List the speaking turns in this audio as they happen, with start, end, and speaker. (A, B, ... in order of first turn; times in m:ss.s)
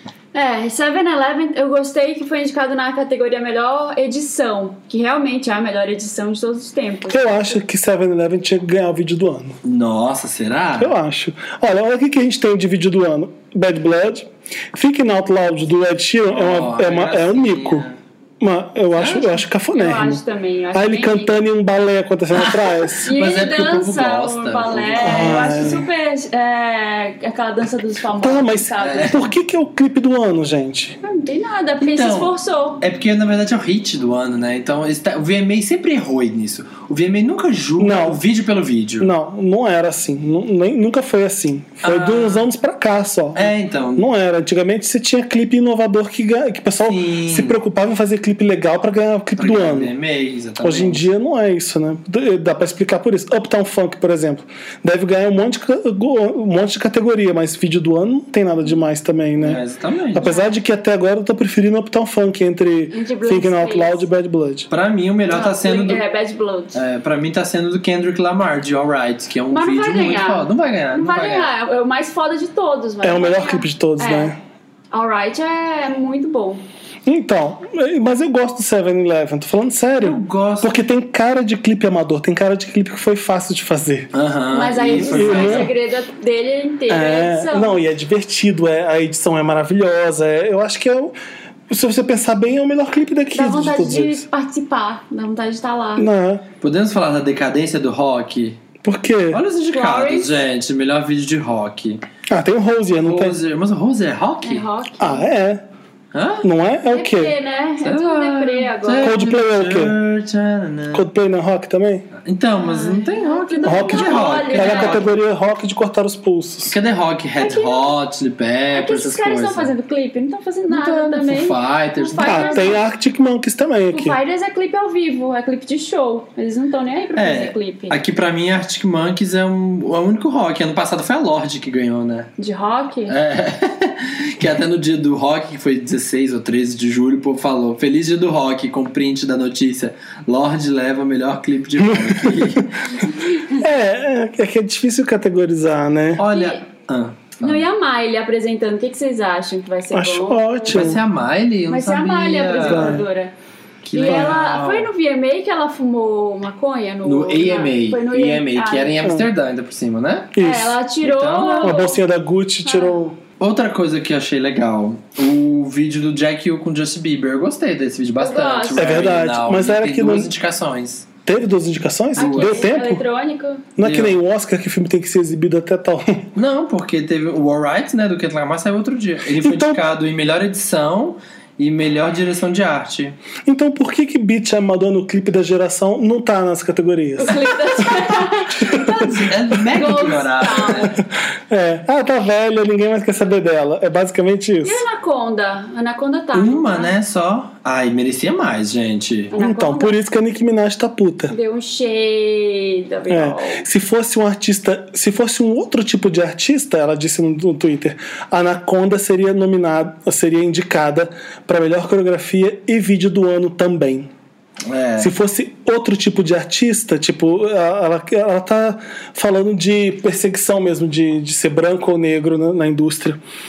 0:00.3-0:07.6 A
0:07.1-0:09.6 B
0:09.6-0:11.0 C
0:10.8-0:17.8 B
0:16.3-0:18.0 C
0:18.4-0:20.2 B
0:19.0-0:19.4 C
0:19.7-0:21.4 A
0:20.7-0:23.1 B
0:22.3-0:25.8 C
0:23.0-0:29.2 A
0:25.0-0:25.9 B
0:28.2-0:31.0 B
0:28.8-0:29.3 C
0:31.0-0:32.8 A
0:31.8-0:39.1 C
0:37.8-0:38.2 B
0:39.0-0:49.9 B
0:41.8-0:42.5 C
0:43.4-0:44.0 C
0:46.8-0:47.6 C
0:49.4-0:51.1 C
0:50.6-1:04.7 B
0:59.4-1:00.2 C
1:00.2-1:00.6 A
1:02.9-1:04.1 A
1:04.7-1:06.0 C
1:05.3-1:06.8 A
1:06.7-1:11.5 C
1:09.5-1:14.3 A
1:13.0-1:14.4 B
1:14.9-1:16.6 A
1:17.1-1:24.1 B
1:20.0-1:20.8 C
1:24.1-1:25.7 C
1:24.5-1:27.8 A
1:25.0-1:25.7 B
1:26.9-1:31.2 B
1:31.7-1:34.2 B
1:33.3-1:36.1 A
1:36.0-1:36.4 B
1:36.6-1:38.6 C
1:38.8-1:39.4 B
1:39.3-1:42.0 C
1:39.7-1:40.4 A
1:42.3-1:43.4 B
1:43.0-1:44.7 C
1:44.4-1:45.3 A
1:45.0-1:45.6 B
1:46.1-1:46.5 C
1:46.4-1:47.3 B
1:46.9-1:49.2 A
1:47.8-1:51.1 C
1:49.0-1:50.0 B
1:50.9-1:52.1 B
1:52.2-1:55.1 C
1:52.6-1:55.0 A
1:53.6-1:56.8 B
1:56.7-1:59.7 C
1:57.4-1:57.9 A
1:58.7-2:02.8 A
2:00.7-2:02.8 C
2:02.2-2:04.2 B
2:03.9-2:08.0 A
2:07.2-2:12.3 C
2:12.4-2:13.2 A
2:13.1-2:23.1 C
2:21.8-2:22.6 B
2:23.2-2:23.6 A
2:23.6-2:26.2 B
2:26.2-2:27.6 C
2:26.3-2:26.6 A
2:27.4-2:30.8 A
2:29.9-2:31.0 B
2:30.7-2:33.0 C
2:31.7-2:33.3 A
2:32.6-2:33.0 B
2:33.8-2:34.9 C
2:33.9-2:39.0 A
2:34.1-2:34.4 B
2:37.0-2:40.4 C
2:40.4-2:40.8 B
2:40.4-2:42.0 A
2:41.0-2:41.9 C
2:41.6-2:43.2 B
2:42.6-2:43.0 A
2:43.4-2:51.1 C
2:48.2-2:49.0 A
2:48.8-2:50.3 B
2:51.3-2:53.0 B
2:52.2-2:52.7 C
2:52.2-2:53.7 A
2:53.8-2:56.3 B
2:53.8-2:54.2 C
2:56.4-3:03.2 C
2:59.4-2:59.8 B
3:03.5-3:09.1 B
3:07.2-3:11.0 A
3:08.8-3:10.9 C
3:11.5-3:14.8 B
3:14.6-3:16.9 A
3:16.3-3:19.3 C
3:19.3-3:20.0 A
3:19.4-3:21.3 B
3:21.3-3:23.6 A
3:23.1-3:34.1 B
3:34.7-3:35.1 C
3:35.0-3:43.2 B